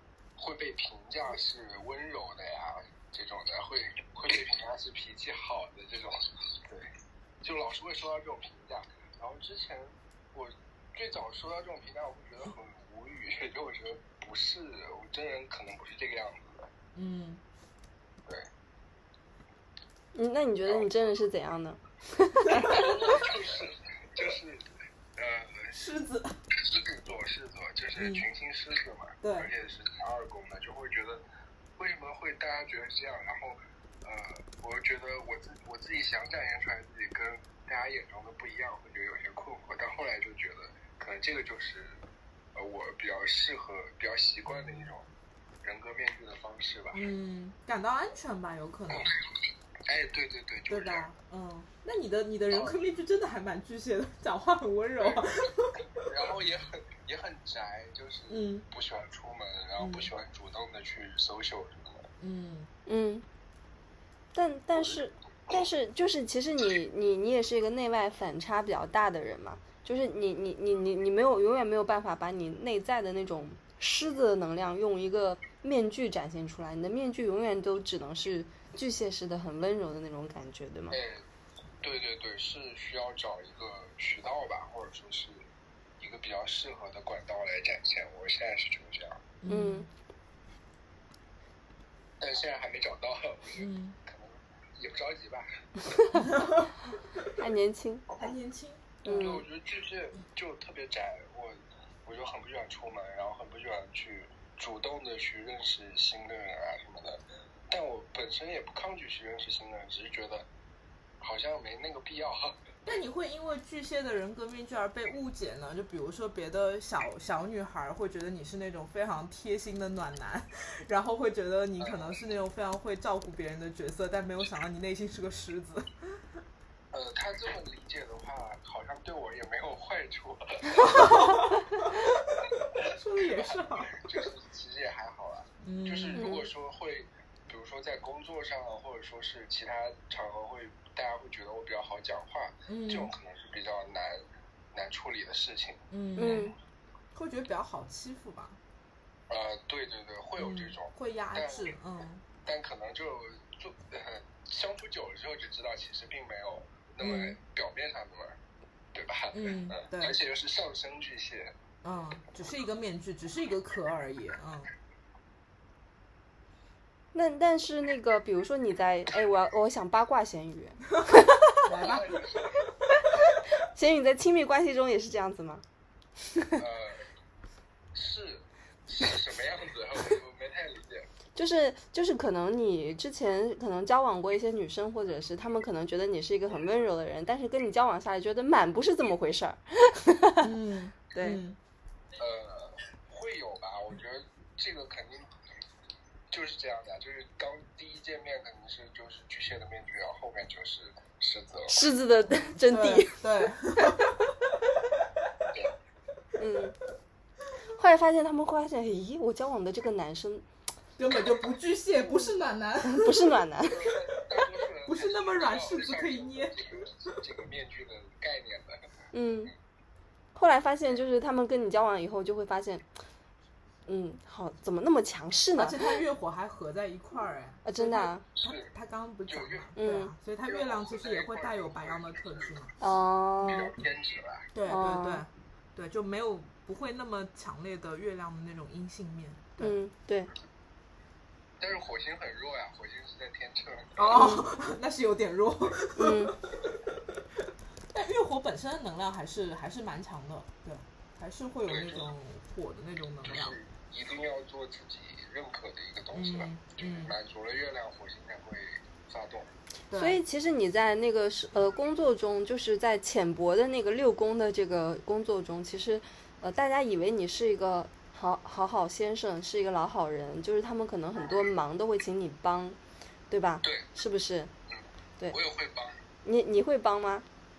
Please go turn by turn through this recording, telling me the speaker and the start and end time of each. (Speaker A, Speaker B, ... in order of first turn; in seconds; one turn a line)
Speaker A: 0.4-6.9
Speaker A: 7.4-16.7
Speaker B: 16.9-17.4
Speaker C: 20.1-22.9
Speaker A: 20.6-21.1
Speaker A: 22.7-24.6
Speaker A: 25.2-25.8
Speaker B: 25.7-26.4
Speaker A: 26.6-31.2
Speaker B: 28.0-28.3
Speaker B: 29.2-29.5
Speaker A: 31.8-42.0
Speaker A: 42.5-45.1
Speaker A: 45.6-47.0
Speaker B: 46.9-49.1
Speaker A: 49.9-51.1
Speaker B: 50.7-56.1
Speaker A: 52.5-52.8
Speaker A: 55.0-55.3
Speaker A: 56.0-62.1
Speaker B: 58.3-58.7
Speaker B: 59.8-60.1
Speaker B: 62.2-62.7
Speaker C: 62.9-63.2
Speaker C: 64.3-81.0
Speaker A: 80.9-81.2
Speaker A: 81.8-85.5
Speaker A: 86.0-89.2
Speaker B: 89.4-89.9
Speaker C: 89.5-89.9
Speaker A: 92.2-95.5
Speaker B: 93.6-94.0
Speaker B: 96.2-96.7
Speaker C: 97.4-98.0
Speaker B: 98.2-99.3
Speaker C: 99.0-99.4
Speaker A: 99.1-110.5
Speaker A: 111.2-112.6
Speaker B: 112.8-126.2
Speaker A: 121.8-122.2
Speaker A: 126.9-131.0
Speaker B: 130.7-134.3
Speaker A: 133.4-146.5
Speaker B: 135.6-136.3
Speaker C: 136.2-136.5
Speaker B: 142.7-143.1
Speaker B: 145.9-146.5
Speaker C: 146.2-146.5
Speaker B: 147.1-148.6
Speaker A: 149.3-151.8
Speaker B: 150.4-152.2
Speaker A: 152.4-158.4
Speaker B: 157.0-157.4
Speaker A: 158.9-161.5
Speaker B: 159.3-160.2
Speaker B: 161.8-164.7
Speaker C: 167.1-171.4
Speaker B: 171.7-172.2
Speaker A: 171.8-172.6
Speaker C: 173.8-175.6
Speaker A: 176.6-177.0
Speaker A: 177.9-181.1
Speaker C: 181.3-190.5
Speaker B: 190.4-191.6
Speaker C: 191.1-191.4
Speaker A: 192.2-195.3
Speaker A: 196.3-201.8
Speaker C: 201.7-203.2
Speaker B: 202.6-204.4
Speaker C: 206.4-206.8
Speaker C: 207.8-210.4
Speaker B: 211.0-213.4
Speaker C: 212.9-213.8
Speaker A: 213.7-218.8
Speaker B: 214.4-217.2
Speaker C: 219.1-219.5
Speaker C: 220.3-222.9
Speaker C: 223.9-226.0
Speaker B: 225.5-232.7
Speaker C: 227.7-228.2
Speaker A: 228.4-228.7
Speaker A: 229.3-229.7
Speaker C: 229.8-230.1
Speaker A: 230.4-232.7
Speaker C: 232.8-233.7
Speaker A: 233.4-234.5
Speaker B: 234.5-239.8
Speaker C: 234.7-235.2
Speaker C: 239.6-240.3
Speaker A: 241.6-244.3
Speaker B: 243.9-246.7
Speaker C: 244.1-244.5
Speaker C: 246.0-246.4
Speaker B: 247.9-253.6
Speaker A: 251.7-252.1
Speaker A: 253.2-259.5
Speaker B: 256.1-257.1
Speaker B: 259.9-260.2
Speaker C: 259.9-272.8
Speaker C: 273.3-274.5
Speaker A: 273.6-273.9
Speaker A: 274.7-276.0
Speaker C: 276.2-277.3